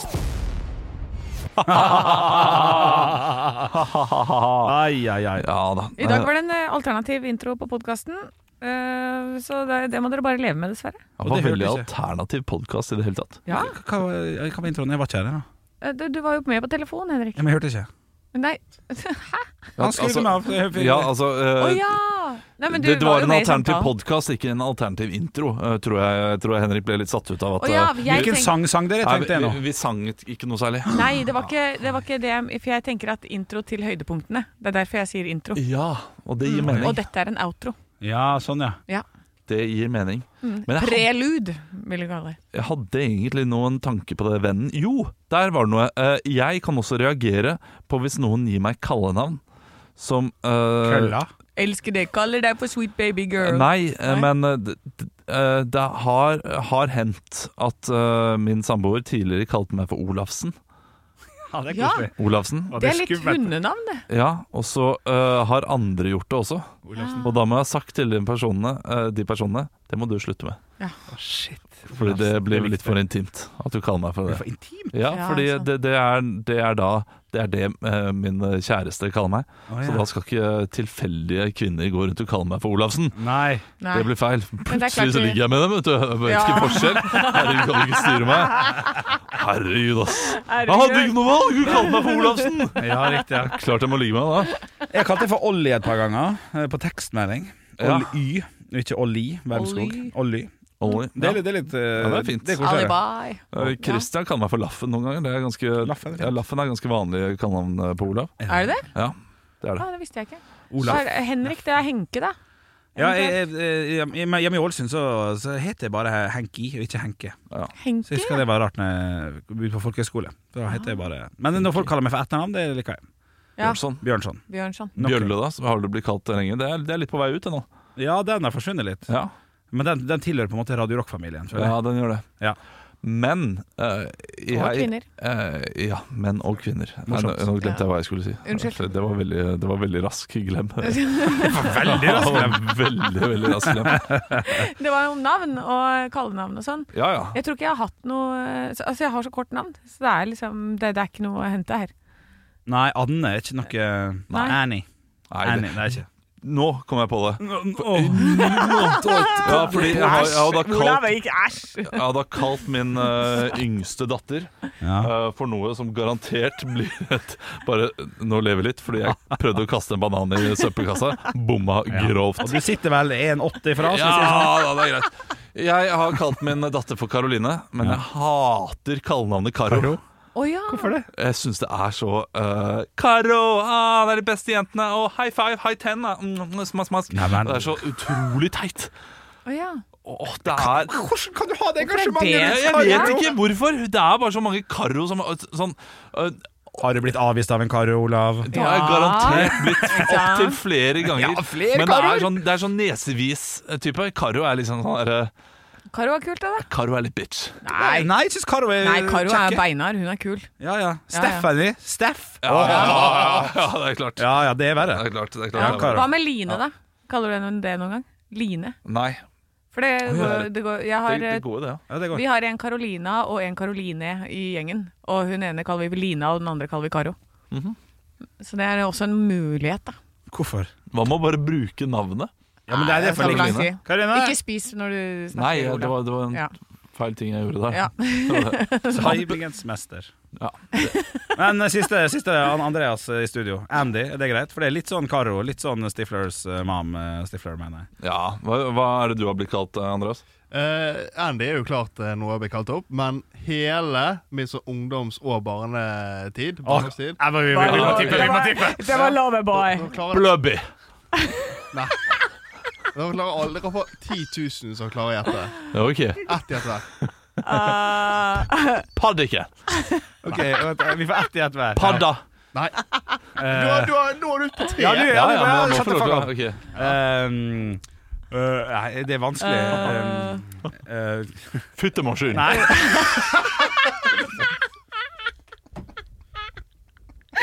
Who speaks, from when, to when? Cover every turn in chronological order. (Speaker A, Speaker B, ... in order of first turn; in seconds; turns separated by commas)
Speaker A: 1.6-4.8, Speaker B: 1.7-3.7, Speaker B: 4.6-5.5, Speaker A: 5.4-6.3, Speaker C: 6.0-11.0, Speaker B: 11.2-11.9, Speaker A: 11.2-13.6, Speaker C: 13.5-13.7, Speaker B: 13.5-15.4, Speaker C: 15.8-17.5, Speaker B: 17.4-17.9, Speaker C: 18.3-19.5, Speaker B: 19.8-21.1, Speaker A: 19.8-22.0, Speaker C: 21.6-23.9, Speaker A: 22.7-31.1, Speaker C: 27.6-28.6, Speaker B: 28.1-29.6, Speaker C: 30.9-35.6, Speaker A: 35.6-37.0, Speaker C: 36.4-37.8, Speaker B: 36.6-37.0, Speaker B: 38.0-38.8, Speaker A: 39.5-41.1, Speaker C: 40.4-42.4, Speaker A: 42.5-49.4, Speaker A: 50.0-51.2, Speaker B: 50.8-51.3, Speaker C: 51.6-54.3, Speaker A: 53.4-60.6, Speaker B: 61.5-62.2, Speaker C: 61.7-62.1, Speaker A: 62.2-62.8, Speaker B: 62.7-63.5, Speaker C: 62.8-64.0, Speaker A: 64.1-70.6, Speaker B: 66.9-67.3, Speaker C: 67.0-67.3, Speaker B: 71.1-73.0, Speaker A: 71.9-83.2, Speaker B: 74.3-74.9, Speaker C: 75.1-75.7, Speaker B: 79.7-80.0, Speaker B: 83.2-83.7, Speaker C: 83.8-84.1, Speaker A: 83.9-94.6, Speaker C: 84.7-85.4, Speaker C: 86.3-88.9, Speaker C: 90.2-93.0, Speaker B: 92.8-93.6, Speaker B: 94.9-100.5, Speaker A: 97.8-98.2, Speaker C: 99.5-100.1, Speaker A: 100.8-102.8, Speaker B: 101.2-103.0, Speaker C: 102.6-104.1, Speaker A: 103.5-108.4, Speaker B: 105.8-106.3, Speaker B: 108.4-108.7, Speaker C: 108.5-108.9, Speaker A: 108.9-109.9, Speaker C: 109.8-112.4, Speaker B: 110.7-111.0, Speaker C: 113.0-113.4, Speaker B: 113.0-117.4, Speaker C: 117.8-118.5, Speaker B: 118.1-123.0, Speaker C: 120.7-121.0, Speaker A: 121.5-121.9, Speaker C: 123.6-123.8, Speaker A: 123.6-124.0, Speaker B: 123.9-124.4, Speaker C: 124.5-124.9, Speaker B: 125.0-125.3, Speaker A: 125.0-127.7, Speaker B: 128.0-129.1, Speaker B: 129.7-131.8, Speaker A: 131.5-132.3, Speaker A: 133.0-144.2, Speaker C: 134.5-135.1, Speaker B: 137.1-137.5, Speaker C: 138.4-138.8, Speaker C: 140.8-141.8, Speaker B: 141.4-142.7, Speaker B: 143.8-144.4, Speaker C: 144.3-151.9, Speaker A: 146.9-147.4, Speaker B: 152.7-154.9, Speaker C: 154.3-154.6, Speaker A: 155.3-161.2, Speaker B: 155.4-156.1, Speaker B: 157.4-160.4, Speaker C: 158.2-162.0, Speaker A: 161.8-172.7, Speaker B: 164.8-165.1, Speaker B: 171.9-174.8, Speaker A: 173.8-180.0, Speaker B: 179.7-180.0, Speaker C: 180.3-181.0, Speaker B: 180.7-181.1, Speaker A: 181.1-188.9, Speaker B: 187.1-187.7, Speaker C: 189.5-189.8, Speaker A: 190.1-191.0, Speaker B: 190.5-193.4, Speaker C: 191.8-193.2, Speaker A: 192.4-196.8, Speaker B: 196.8-198.5, Speaker A: 198.5-205.3, Speaker C: 198.5-200.6, Speaker B: 199.2-200.1, Speaker B: 201.0-202.4, Speaker C: 205.9-206.7, Speaker A: 206.7-207.6, Speaker C: 207.6-208.1, Speaker B: 207.7-209.6, Speaker C: 208.8-210.5, Speaker B: 210.6-213.6, Speaker C: 211.1-211.5, Speaker A: 212.4-216.1, Speaker C: 212.6-213.1, Speaker B: 214.2-216.1, Speaker C: 215.6-218.8, Speaker A: 218.8-219.2, Speaker C: 219.7-221.4, Speaker B: 220.1-220.4, Speaker A: 220.2-221.8, Speaker B: 221.9-222.2, Speaker C: 222.1-227.2, Speaker A: 227.5-227.8, Speaker C: 228.4-230.0, Speaker B: 230.3-230.7, Speaker A: 230.9-232.3, Speaker B: 232.7-234.4, Speaker C: 232.7-236.5, Speaker A: 233.1-233.7, Speaker A: 235.3-239.4, Speaker C: 237.7-239.3, Speaker B: 238.9-240.1, Speaker A: 240.4-241.0, Speaker C: 240.7-241.4, Speaker B: 241.4-247.9, Speaker A: 248.0-250.2, Speaker D: 250.5-257.2, Speaker B: 256.6-259.0, Speaker C: 257.5-260.0, Speaker A: 257.6-258.4, Speaker D: 258.9-260.3, Speaker A: 260.1-260.7, Speaker C: 261.1-261.6, Speaker D: 261.7-262.1, Speaker D: 262.9-265.7, Speaker A: 265.7-266.4, Speaker D: 266.2-266.9, Speaker A: 267.0-267.8, Speaker C: 267.4-268.9, Speaker A: 268.9-269.5, Speaker B: 270.2-272.1, Speaker A: 271.8-272.2, Speaker D: 272.5-272.8, Speaker D: 273.4-275.1, Speaker B: 273.4-273.9, Speaker B: 274.8-281.7, Speaker A: 275.1-276.7, Speaker C: 279.4-280.4, Speaker A: 281.8-283.2, Speaker B: 282.3-283.0, Speaker C: 282.5-283.3